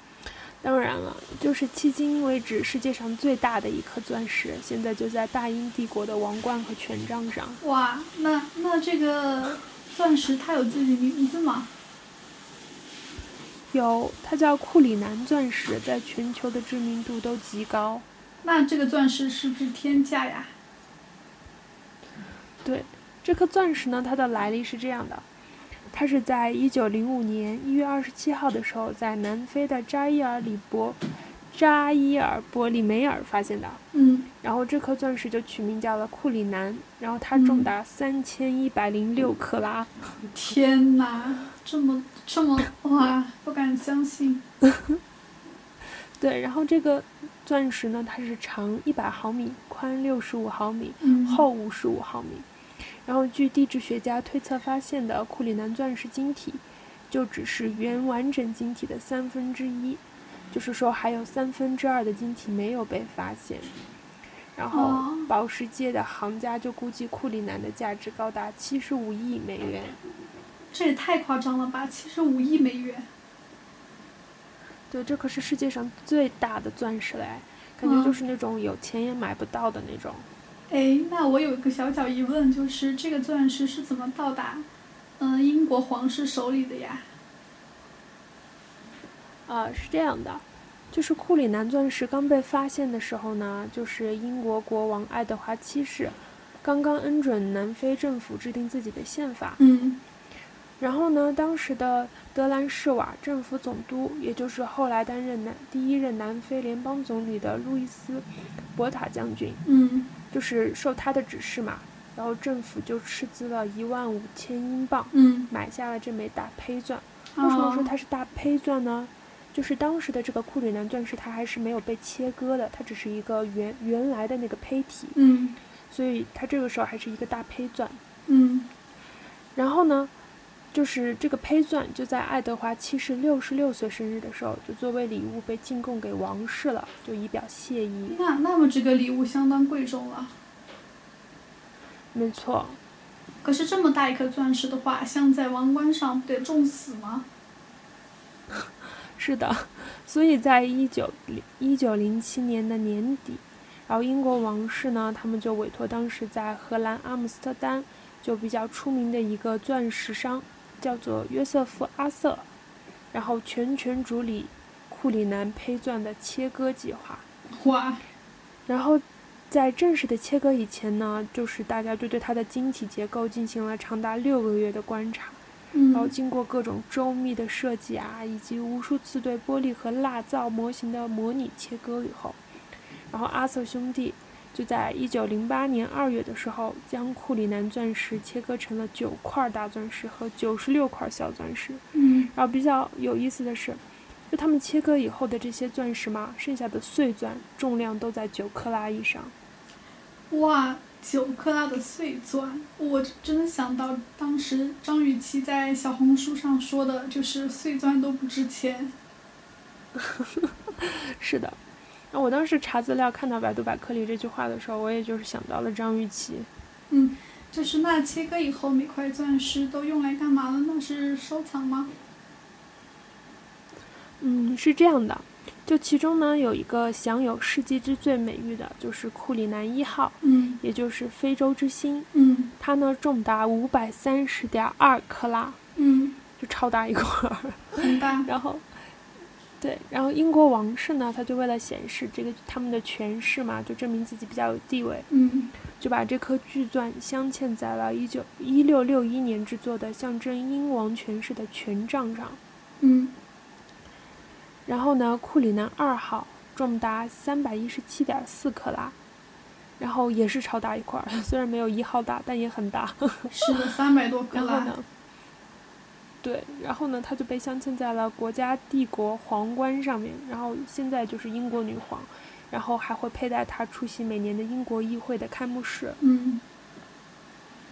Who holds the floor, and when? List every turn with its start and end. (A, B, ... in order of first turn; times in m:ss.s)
0:00.6-0:07.6 A
0:07.6-0:11.7 B
0:13.7-0:18.0 A
0:18.4-0:20.5 B
0:22.6-0:25.2 A
0:25.9-0:33.8 A
0:33.9-0:34.3 B
0:34.4-0:40.2 A
0:37.3-0:37.7 B
0:40.3-0:44.4 B
0:46.2-0:52.4 A
0:51.0-0:51.4 B
0:53.0-1:03.7 A
1:04.5-1:10.0 A
1:04.7-1:05.3 B
1:10.7-1:13.1 B
1:14.9-1:20.3 A
1:17.8-1:18.2 B
1:20.7-1:24.7 B
1:25.2-1:27.0 B
1:29.5-1:39.6 A
1:39.6-1:40.0 B
1:40.8-1:49.6 A
1:49.6-1:50.1 B
1:50.3-2:05.2 A
1:55.1-1:55.5 B
1:57.4-1:57.9 B
2:05.1-2:05.6 B
2:05.9-2:08.0 A
2:08.3-2:08.7 B
2:09.5-2:10.1 A
2:10.7-2:18.2 A
2:18.1-2:20.3 B
2:22.1-2:22.8 A
2:23.4-2:27.3 B
2:29.2-2:42.5 A
2:43.1-2:47.2 A
2:47.5-2:48.0 B
2:48.7-2:55.4 A
2:55.7-2:56.1 B
2:55.9-3:02.4 A
3:03.1-3:19.3 A
3:11.9-3:12.3 B
3:20.3-3:28.9 B
3:30.0-3:31.6 A
3:32.1-3:36.5 A
3:36.9-3:41.9 B
3:44.2-3:55.6 A
3:50.2-3:50.6 B
3:52.1-3:52.5 B
3:55.8-3:56.2 B
3:56.4-3:58.8 A
3:57.8-3:58.3 B
3:59.6-4:05.1 A
4:05.1-4:05.5 B
4:05.8-4:12.4 A
4:12.8-4:13.1 B
4:14.6-4:18.9 A
4:19.8-4:23.6 A
4:23.3-4:24.7 B
4:24.3-4:24.9 A
4:26.2-4:36.0 A
4:36.0-4:36.4 B